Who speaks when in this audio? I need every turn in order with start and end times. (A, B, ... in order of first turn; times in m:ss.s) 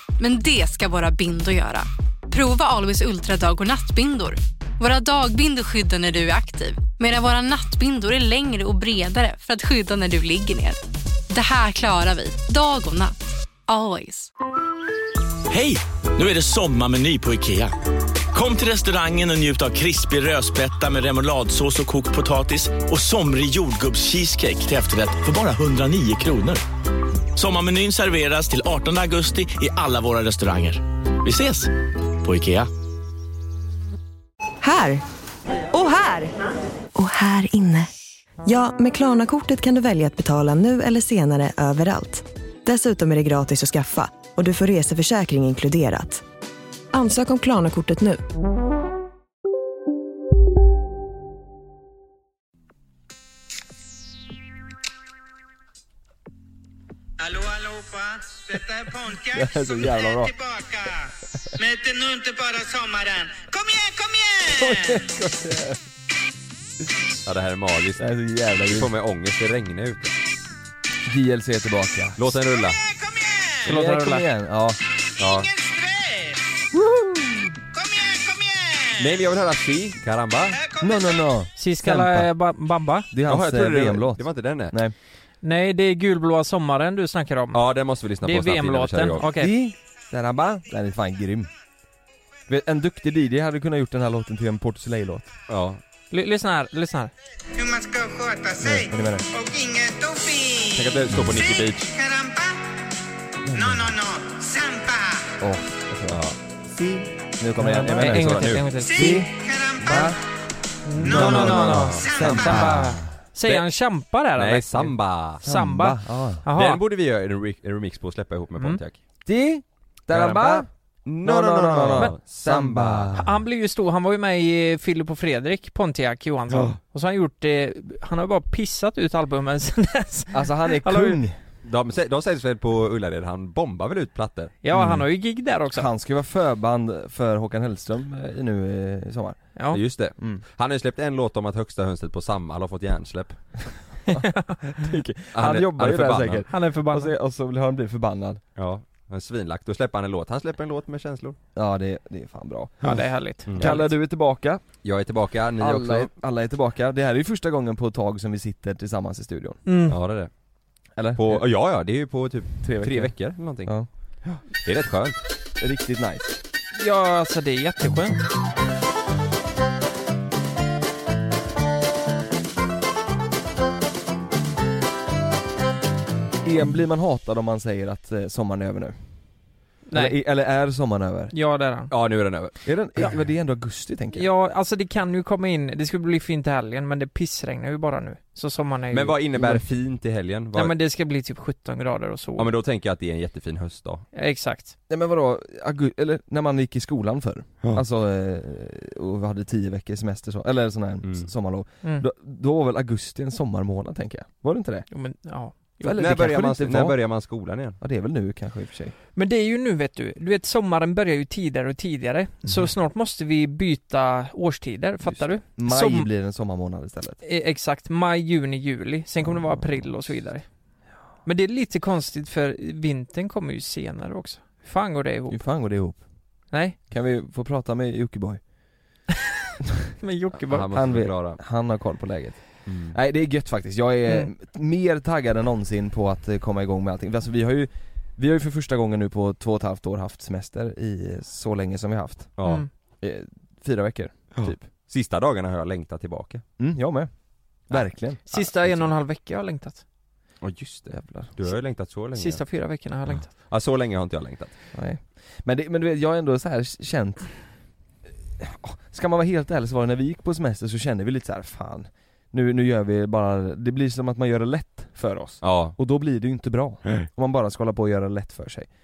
0:00.2-0:13.2 A
0:13.7-0:14.3 A
0:15.5-0:17.7 B
0:18.3-0:26.6 B
0:27.4-0:32.7 B
0:34.6-0:35.0 C
0:35.7-0:36.3 C
0:37.0-0:37.9 C
0:38.4-0:46.2 C
0:46.9-0:48.2 C
0:57.2-1:05.1 D
0:59.3-1:00.3 E
1:04.5-1:05.8 E
1:07.2-1:08.1 F
1:08.0-1:08.9 E
1:08.7-1:10.2 F
1:11.1-1:12.4 E
1:12.2-1:12.8 F
1:12.6-1:13.7 D
1:13.6-1:14.8 E
1:13.7-1:14.2 G
1:15.2-1:15.5 F
1:15.2-1:16.4 D
1:16.7-1:17.5 E
1:17.7-1:19.2 D
1:19.0-1:20.6 F
1:20.5-1:21.0 D
1:20.8-1:22.3 E
1:21.6-1:23.1 G
1:23.1-1:25.0 E
1:23.2-1:24.7 F
1:25.4-1:27.6 G
1:27.5-1:29.3 F
1:28.2-1:29.5 G
1:29.4-1:31.5 E
1:32.5-1:35.3 E
1:35.5-1:35.8 F
1:36.1-1:37.1 G
1:37.6-1:42.6 D
1:38.6-1:39.2 E
1:40.7-1:41.9 F
1:43.4-1:43.8 E
1:43.5-1:45.3 D
1:45.4-1:46.2 E
1:46.0-1:47.1 F
1:47.4-1:49.3 E
1:47.6-1:49.2 G
1:48.0-1:48.7 F
1:48.8-1:50.2 D
1:49.8-1:50.2 E
1:50.8-1:54.9 G
1:51.0-1:52.7 D
1:51.0-1:53.1 E
1:51.0-1:52.8 F
1:54.3-1:55.4 F
1:55.4-1:56.8 G
1:55.4-1:56.4 E
1:56.5-1:59.0 F
1:59.2-2:00.7 E
2:00.1-2:03.3 F
2:01.2-2:03.3 E
2:03.2-2:11.2 G
2:06.5-2:06.8 F
2:10.3-2:11.4 E
2:11.6-2:14.5 F
2:14.6-2:15.9 G
2:14.7-2:15.1 E
2:15.7-2:19.6 E
2:19.7-2:23.6 F
2:20.2-2:20.4 E
2:24.1-2:28.4 E
2:24.1-2:24.5 G
2:25.3-2:26.5 F
2:26.5-2:27.1 G
2:28.6-2:31.4 F
2:31.6-2:34.6 E
2:32.8-2:33.9 G
2:33.5-2:33.8 F
2:34.8-2:36.1 F
2:35.6-2:39.6 E
2:39.7-2:40.0 G
2:39.9-2:40.3 F
2:41.0-2:41.4 E
2:41.2-2:43.7 F
2:42.6-2:43.9 E
2:44.2-2:45.2 F
2:45.6-2:46.4 E
2:46.7-2:48.2 G
2:56.4-2:59.0 E
2:59.9-3:00.2 G
2:59.9-3:01.3 E
3:01.3-3:01.9 G
3:01.9-3:02.6 F
3:02.6-3:04.3 E
3:04.1-3:09.2 G
3:08.9-3:10.7 F
3:09.4-3:09.6 E
3:10.5-3:12.5 G
3:12.4-3:14.0 F
3:14.1-3:14.7 G
3:14.9-3:24.9 E
3:21.0-3:21.3 F
3:24.9-3:26.0 G
3:25.8-3:27.0 E
3:26.0-3:27.8 F
3:27.8-3:29.0 E
3:29.2-3:36.1 G
3:35.0-3:37.2 E
3:37.2-3:40.5 G
3:39.2-3:40.1 E
3:41.2-3:45.4 G
3:45.3-3:48.4 E
3:46.5-3:46.8 G
3:50.0-3:50.7 G
3:50.4-3:51.4 F
3:50.7-4:02.4 E
3:52.7-3:53.0 F
4:02.4-4:02.7 F
4:02.4-4:02.7 G
4:03.0-4:04.6 E
4:04.3-4:06.4 F
4:06.6-4:08.9 E
4:07.7-4:09.8 G
4:10.4-4:12.4 F
4:10.9-4:11.3 E
4:12.2-4:13.3 G
4:13.2-4:14.6 F
4:14.7-4:17.5 E
4:18.4-4:28.7 E
4:25.4-4:25.8 F